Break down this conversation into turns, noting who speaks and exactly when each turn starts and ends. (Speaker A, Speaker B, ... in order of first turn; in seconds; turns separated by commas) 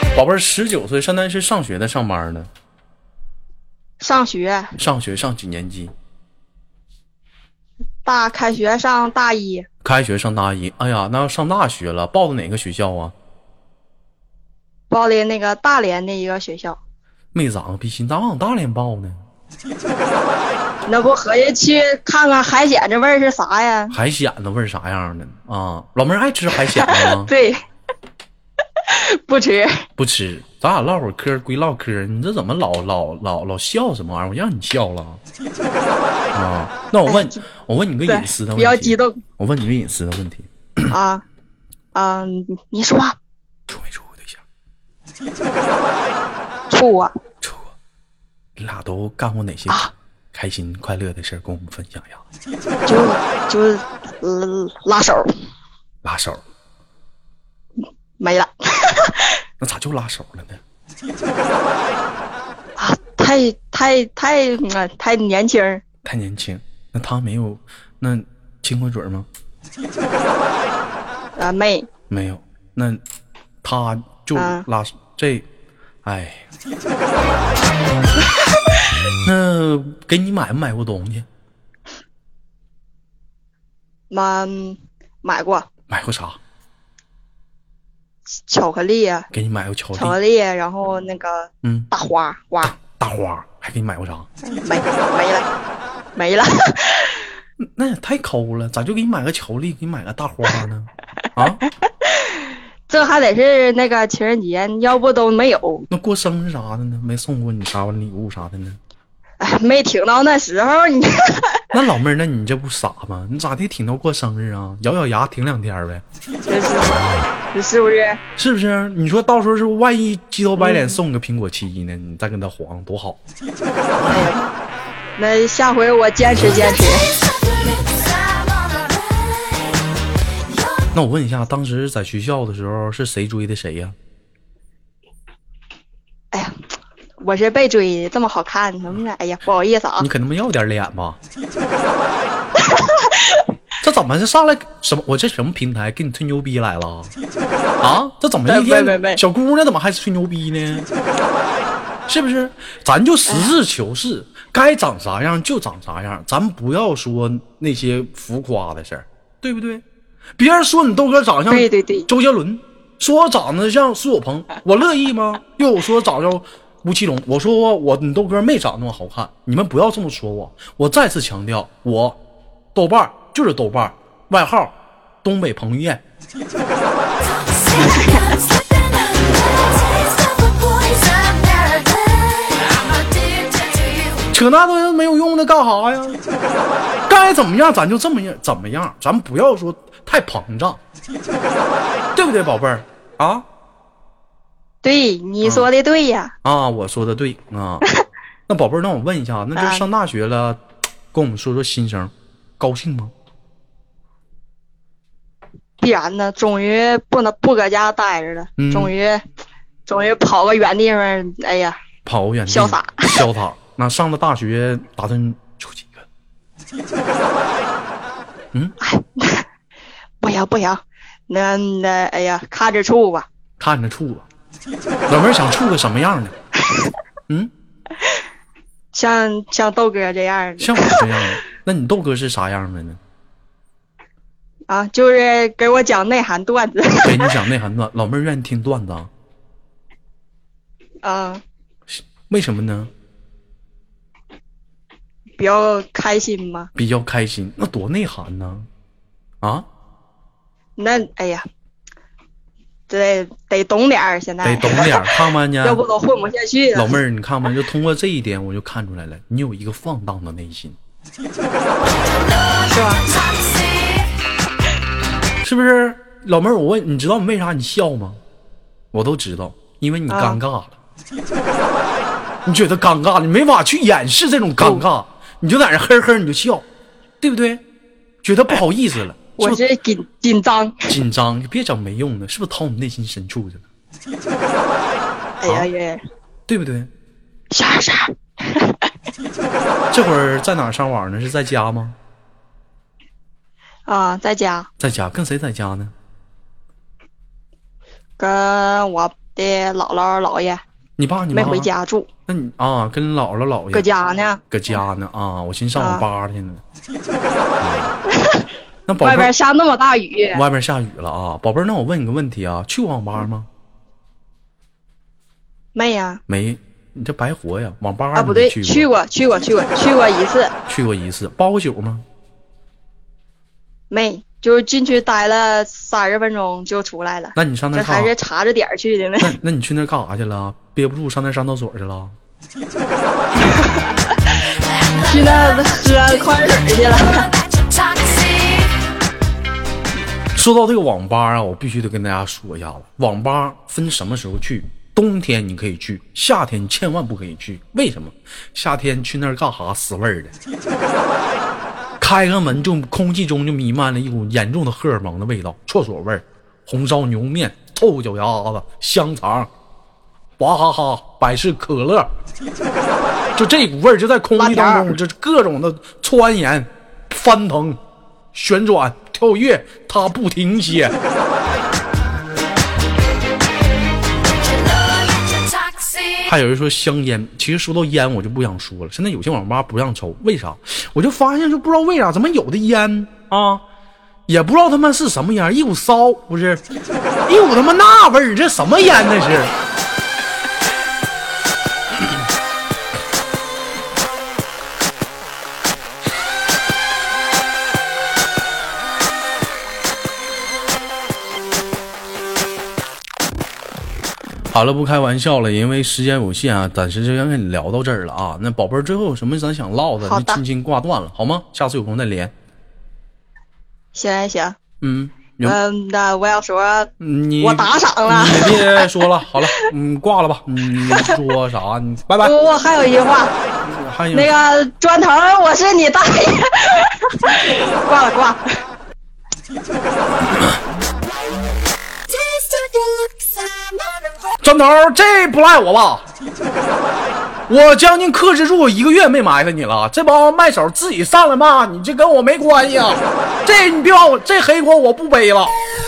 Speaker A: 0.1-2.5, Speaker B: 4.0-4.8, Speaker A: 4.8-5.9, Speaker B: 8.0-9.7, Speaker A: 9.8-13.1, Speaker B: 14.9-16.8, Speaker A: 17.3-19.2, Speaker B: 20.8-23.9, Speaker A: 23.9-27.3, Speaker B: 26.8-27.6, Speaker B: 28.9-29.8, Speaker A: 30.0-35.2, Speaker A: 36.3-40.9, Speaker B: 37.1-37.4, Speaker B: 38.1-39.2, Speaker B: 40.9-41.2, Speaker B: 41.9-43.1, Speaker A: 43.7-44.4, Speaker B: 46.7-47.1, Speaker A: 47.4-47.7, Speaker A: 48.6-52.2, Speaker B: 52.9-55.3, Speaker A: 56.0-56.4, Speaker B: 58.2-59.4, Speaker A: 59.6-60.6, Speaker B: 62.8-65.8, Speaker A: 66.0-69.2, Speaker B: 71.3-71.9, Speaker A: 72.1-73.0, Speaker A: 73.6-75.5, Speaker B: 74.3-74.6, Speaker A: 76.0-76.5, Speaker A: 79.2-81.3, Speaker B: 84.1-85.7, Speaker A: 85.9-86.4, Speaker B: 88.5-89.3, Speaker A: 89.3-90.2, Speaker B: 90.0-92.7, Speaker A: 91.6-91.9, Speaker A: 92.6-94.3, Speaker B: 94.4-95.5, Speaker B: 96.2-97.2, Speaker A: 97.6-101.6, Speaker B: 102.0-105.8, Speaker A: 105.9-108.8, Speaker B: 109.4-111.6, Speaker A: 111.7-116.0, Speaker B: 116.5-118.2, Speaker A: 118.3-123.2, Speaker A: 124.0-124.3, Speaker B: 124.1-124.6, Speaker B: 125.2-127.0, Speaker C: 127.4-130.9, Speaker A: 130.9-133.9, Speaker B: 137.2-140.1, Speaker A: 140.0-141.2, Speaker B: 142.6-143.2, Speaker A: 143.8-147.1, Speaker A: 147.8-150.9, Speaker B: 148.5-149.2, Speaker A: 152.1-159.8, Speaker A: 160.4-172.2, Speaker B: 161.5-162.1, Speaker A: 172.7-176.0, Speaker C: 177.3-184.3, Speaker B: 177.8-178.2, Speaker A: 184.3-186.2, Speaker A: 187.1-190.8, Speaker A: 192.1-193.4, Speaker B: 194.8-196.3, Speaker A: 195.4-195.7, Speaker A: 196.4-197.8, Speaker A: 198.5-203.1, Speaker B: 199.5-199.8, Speaker B: 205.8-209.2, Speaker A: 208.6-208.9, Speaker B: 209.8-211.8, Speaker A: 212.1-216.1, Speaker B: 212.5-213.2, Speaker B: 218.8-219.4, Speaker B: 220.2-223.3, Speaker A: 223.6-224.3, Speaker A: 225.1-226.3, Speaker B: 228.9-231.1, Speaker A: 230.6-233.0, Speaker B: 234.7-237.3, Speaker A: 237.0-239.1, Speaker B: 241.0-241.4, Speaker A: 241.9-242.9, Speaker B: 245.4-246.7, Speaker A: 246.8-248.7, Speaker B: 250.8-251.4, Speaker B: 252.9-256.9, Speaker A: 254.4-255.8, Speaker A: 256.7-260.8, Speaker C: 262.1-264.1, Speaker B: 262.7-263.0, Speaker A: 265.4-268.2, Speaker A: 268.9-270.8, Speaker B: 270.1-270.4, Speaker A: 272.4-276.7, Speaker A: 277.2-277.6, Speaker A: 278.2-279.6, Speaker B: 279.4-280.9, Speaker A: 280.9-283.6, Speaker B: 285.4-286.0, Speaker A: 286.5-286.9, Speaker B: 287.5-288.9, Speaker A: 289.9-291.9, Speaker B: 293.9-294.7, Speaker A: 294.8-295.9, Speaker B: 298.2-300.6, Speaker A: 301.0-301.7, Speaker B: 301.3-302.1, Speaker A: 302.3-303.9, Speaker B: 303.7-304.4, Speaker A: 304.5-306.6, Speaker B: 305.8-306.0, Speaker A: 307.6-307.9, Speaker A: 308.9-309.3, Speaker B: 309.0-310.4, Speaker A: 310.3-313.5, Speaker B: 315.7-316.2, Speaker A: 316.3-318.9, Speaker B: 318.1-320.5, Speaker A: 320.7-322.0, Speaker B: 323.9-329.3, Speaker A: 327.4-328.1, Speaker A: 329.2-332.1, Speaker B: 333.4-333.8, Speaker C: 334.9-338.9, Speaker B: 335.0-337.2, Speaker A: 340.3-350.3, Speaker A: 352.0-359.5, Speaker A: 360.4-362.1, Speaker A: 363.4-367.8, Speaker B: 364.4-364.9, Speaker A: 368.3-370.9, Speaker C: 374.3-376.2, Speaker A: 376.2-383.6, Speaker A: 384.3-386.6, Speaker A: 387.3-389.5, Speaker A: 404.5-412.3, Speaker B: 410.0-410.4, Speaker B: 413.9-414.6, Speaker A: 414.8-415.6, Speaker B: 415.4-418.9, Speaker A: 417.0-422.3, Speaker B: 420.8-421.2, Speaker B: 422.2-423.3, Speaker A: 423.6-424.3, Speaker B: 424.1-428.4, Speaker C: 432.4-433.1, Speaker A: 434.4-436.0, Speaker A: 437.5-445.5